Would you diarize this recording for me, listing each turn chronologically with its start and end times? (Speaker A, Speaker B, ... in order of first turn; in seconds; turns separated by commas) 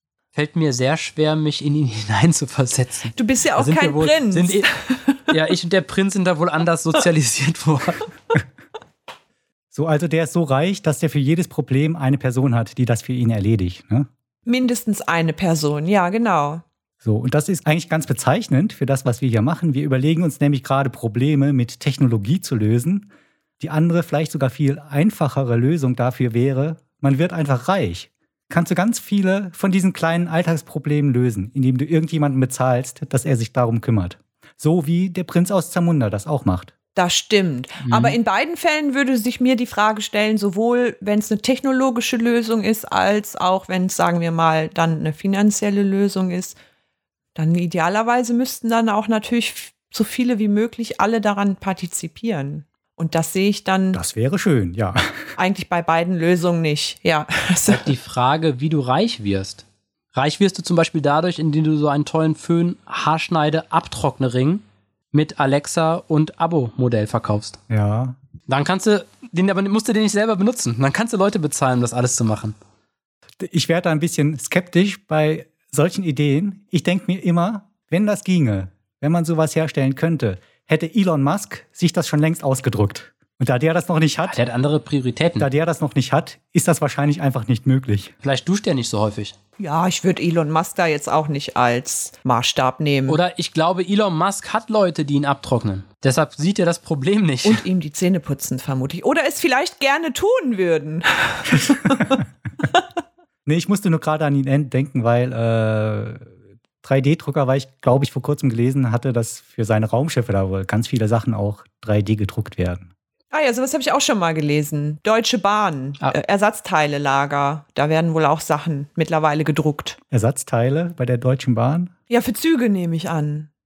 Speaker A: 0.3-4.7, Speaker B: 3.1-5.3, Speaker A: 5.3-8.1, Speaker C: 9.7-14.1, Speaker B: 14.5-16.6, Speaker C: 17.0-23.1, Speaker C: 23.6-36.7, Speaker B: 37.0-46.6, Speaker A: 37.8-38.2, Speaker B: 47.4-54.0, Speaker C: 53.9-55.2, Speaker B: 55.4-57.9, Speaker A: 57.7-67.6, Speaker C: 67.7-68.2, Speaker A: 68.5-72.5, Speaker C: 73.4-84.4, Speaker A: 84.3-85.5, Speaker C: 85.4-88.1, Speaker A: 88.2-89.3, Speaker B: 89.6-93.2, Speaker A: 93.1-97.6, Speaker B: 97.5-102.2, Speaker C: 101.8-102.2, Speaker C: 103.5-106.3, Speaker C: 106.8-112.9, Speaker B: 113.3-120.0, Speaker C: 120.1-121.9, Speaker B: 122.1-123.5